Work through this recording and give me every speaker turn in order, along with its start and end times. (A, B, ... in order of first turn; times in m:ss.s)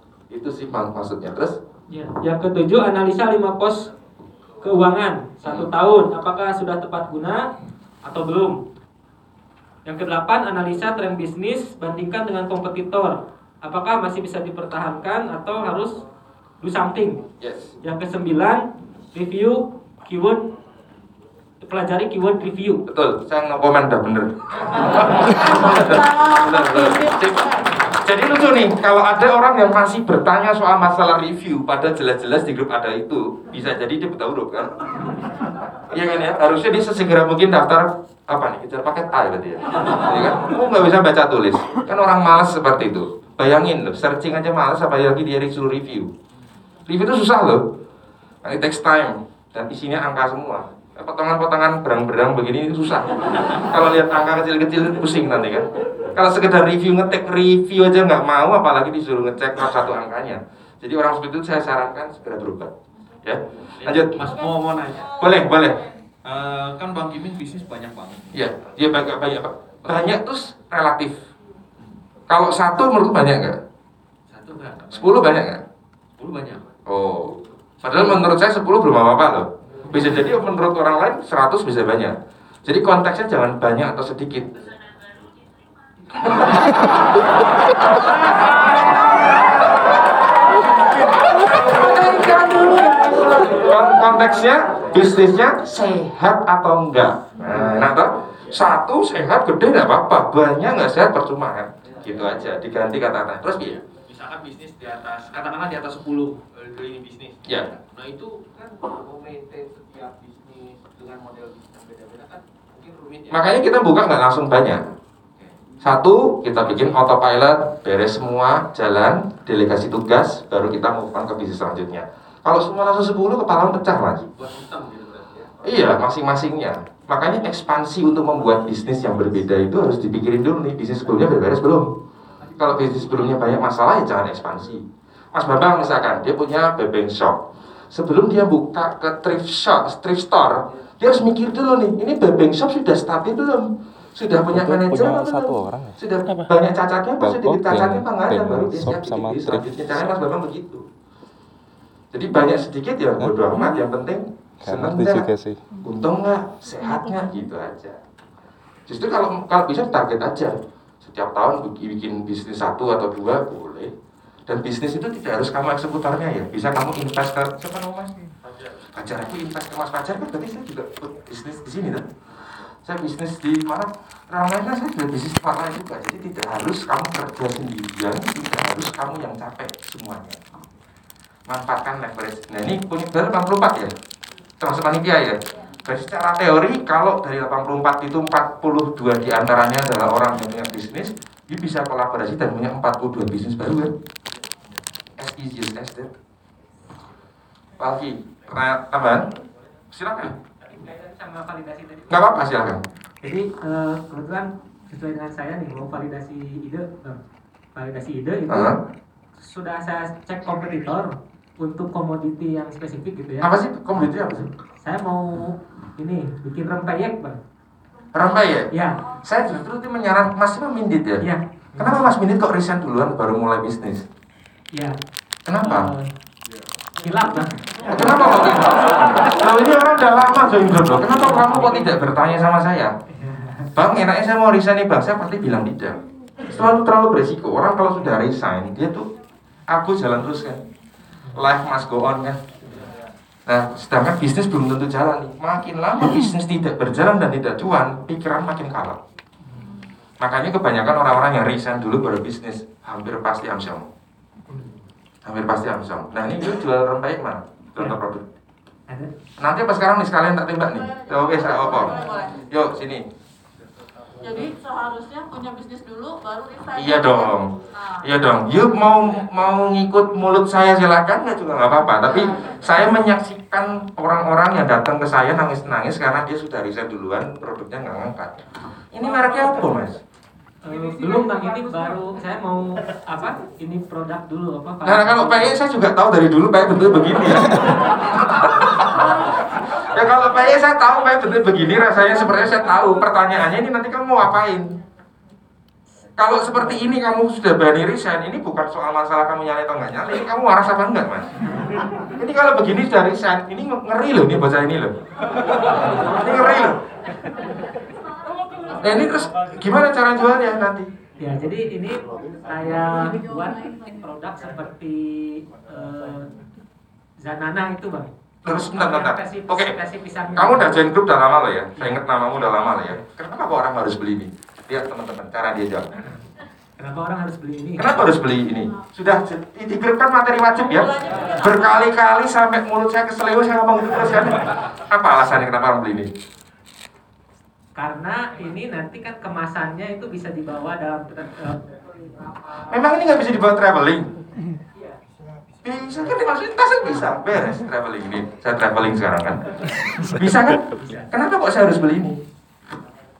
0:00.3-0:01.5 A
0:01.9-0:03.9 B
0:04.6-0:07.5 B
0:08.0-0:08.6 B
0:09.8-0:16.0 B
0:16.6-0:17.2 B
0:17.4-0:17.7 A
0:17.8-0:20.4 B
0:21.6-0:22.8 B
0:22.9-0:46.1 A
0:25.5-0:27.6 C
0:46.8-0:47.6 A
0:48.4-1:02.7 A
1:03.2-1:04.3 A
1:03.8-1:05.2 D
1:05.1-1:05.9 A
1:06.2-1:08.4 D
1:08.3-1:11.2 A
1:12.3-1:13.6 A
1:14.3-1:15.2 D
1:14.9-1:15.6 A
1:16.2-1:16.6 D
1:16.8-1:24.5 A
1:17.8-1:18.2 D
1:26.2-1:27.3 A
1:28.0-1:29.5 A
1:31.0-1:43.8 A
1:42.0-1:42.3 D
1:43.6-1:53.4 D
1:47.4-1:47.7 A
1:53.3-1:54.8 A
1:55.8-2:04.3 A
2:04.4-2:05.7 D
2:05.6-2:11.9 A
2:12.6-2:14.8 A
2:15.3-2:17.4 A
2:17.9-2:30.8 A
2:24.5-2:25.9 E
2:27.2-2:29.7 E
2:32.1-2:35.3 A
2:33.2-2:33.7 E
2:34.6-2:35.6 E
2:35.8-2:38.0 A
2:38.9-2:43.9 A
2:44.5-2:48.1 A
2:48.9-2:52.0 A
2:52.8-3:00.4 A
3:01.5-3:03.9 A
3:04.6-3:13.9 A
3:15.2-3:16.1 A
3:17.8-3:19.3 A
3:19.9-3:20.3 A
3:20.7-3:22.2 B
3:22.1-3:22.8 A
3:23.2-3:27.2 B
3:27.7-3:28.7 B
3:28.5-3:28.8 A
3:29.4-3:34.0 B
3:33.4-3:34.5 A
3:34.8-3:37.4 B
3:38.1-3:38.7 A
3:38.7-3:39.0 B
3:39.2-3:41.2 A
3:41.2-3:42.1 B
3:41.8-3:44.0 A
3:45.4-3:45.9 A
3:45.6-3:46.1 B
3:47.0-3:48.5 B
3:47.9-3:52.9 A
3:51.2-3:51.7 B
3:53.1-3:53.7 B
3:53.8-3:59.0 A
3:59.7-4:00.6 A
4:01.3-4:02.4 A
4:03.5-4:09.0 A
4:10.2-4:13.9 A
4:15.2-4:18.2 A
4:19.4-4:23.0 A
4:21.9-4:22.4 C
4:24.2-4:27.3 C
4:26.7-4:38.4 A
4:38.9-4:40.0 A
4:40.6-4:45.6 B
4:44.8-4:54.7 A
4:56.2-5:01.3 A
5:02.0-5:04.9 A
5:05.5-5:06.8 A
5:05.8-5:06.7 B
5:08.8-5:10.9 A
5:11.2-5:16.3 B
5:17.2-5:20.8 B
5:18.4-5:19.7 A
5:20.4-5:26.0 A
5:21.8-5:23.0 B
5:26.8-5:28.0 B
5:27.8-5:36.1 A
5:37.7-5:41.8 B
5:42.7-5:44.1 A
5:45.6-5:49.4 A
5:50.0-5:52.2 A
5:50.7-5:51.1 B